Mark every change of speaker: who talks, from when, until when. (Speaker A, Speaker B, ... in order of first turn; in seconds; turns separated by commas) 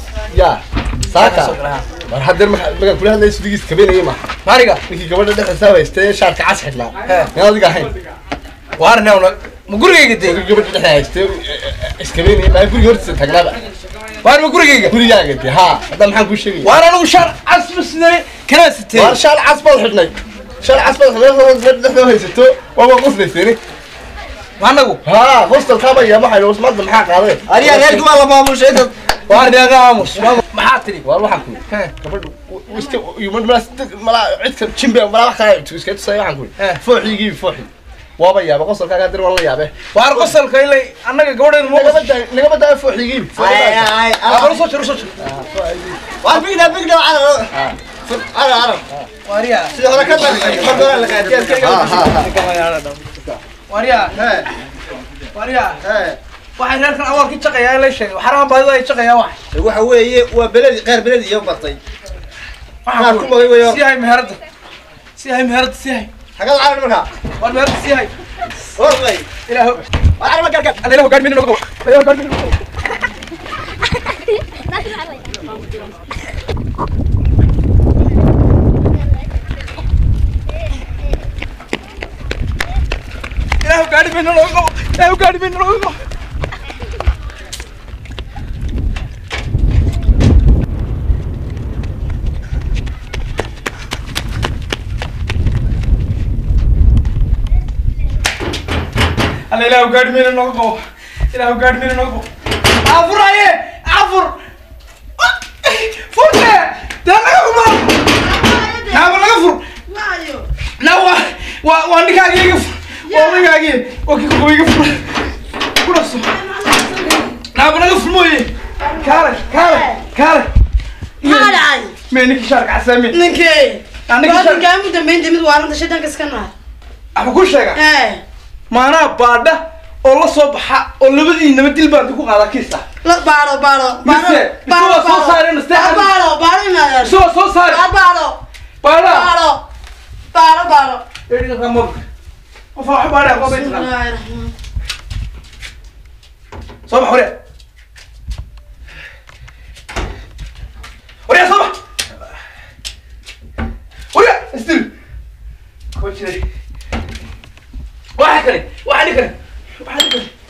Speaker A: 0.3-1.6, Speaker B: 1.1-1.8, Speaker A: 2.1-4.2, Speaker B: 4.4-4.8, Speaker A: 4.9-7.9, Speaker B: 7.0-7.3, Speaker B: 8.8-10.4, Speaker A: 10.2-13.6, Speaker B: 14.2-15.0, Speaker A: 14.9-16.8, Speaker B: 16.6-19.2, Speaker A: 18.9-23.6, Speaker B: 24.6-25.0, Speaker A: 25.0-28.1, Speaker C: 27.5-28.9, Speaker B: 29.3-31.0, Speaker A: 31.0-39.7, Speaker B: 39.9-42.1, Speaker A: 41.7-43.9, Speaker C: 43.4-44.6, Speaker B: 44.2-45.1, Speaker A: 45.2-46.2, Speaker C: 46.2-47.5, Speaker C: 48.0-48.8, Speaker B: 49.2-49.8, Speaker C: 49.7-52.1, Speaker A: 49.9-52.4, Speaker B: 50.3-53.0, Speaker B: 53.7-54.2, Speaker C: 54.1-54.5, Speaker B: 55.3-55.8, Speaker C: 55.8-56.2, Speaker B: 56.6-59.4, Speaker C: 59.5-61.8, Speaker B: 62.9-64.4, Speaker C: 62.9-63.8, Speaker B: 65.2-66.1, Speaker C: 66.4-67.1, Speaker B: 67.4-68.1, Speaker C: 68.8-69.3, Speaker B: 69.5-69.8, Speaker C: 70.2-70.8, Speaker B: 70.8-72.6, Speaker B: 83.6-86.0, Speaker B: 99.5-102.3, Speaker B: 102.8-104.4, Speaker B: 105.2-108.2, Speaker D: 108.1-110.5, Speaker B: 108.9-109.6, Speaker B: 110.8-116.4, Speaker D: 113.1-113.5, Speaker D: 116.2-117.3, Speaker B: 117.5-118.5, Speaker D: 118.8-120.0, Speaker B: 119.0-120.5, Speaker B: 121.2-123.2, Speaker D: 121.2-121.9, Speaker D: 123.1-126.5, Speaker B: 124.1-124.7, Speaker B: 127.1-127.8, Speaker D: 127.7-128.2, Speaker B: 128.7-132.8, Speaker D: 133.0-138.4, Speaker B: 134.0-136.1, Speaker B: 137.0-137.8, Speaker B: 138.8-139.3, Speaker D: 139.0-139.6, Speaker D: 140.3-141.0, Speaker B: 141.3-142.0, Speaker B: 142.7-143.9, Speaker D: 143.4-144.5, Speaker B: 146.9-147.3, Speaker B: 151.3-151.7, Speaker B: 154.1-154.9, Speaker B: 155.9-156.4, Speaker B: 158.2-160.3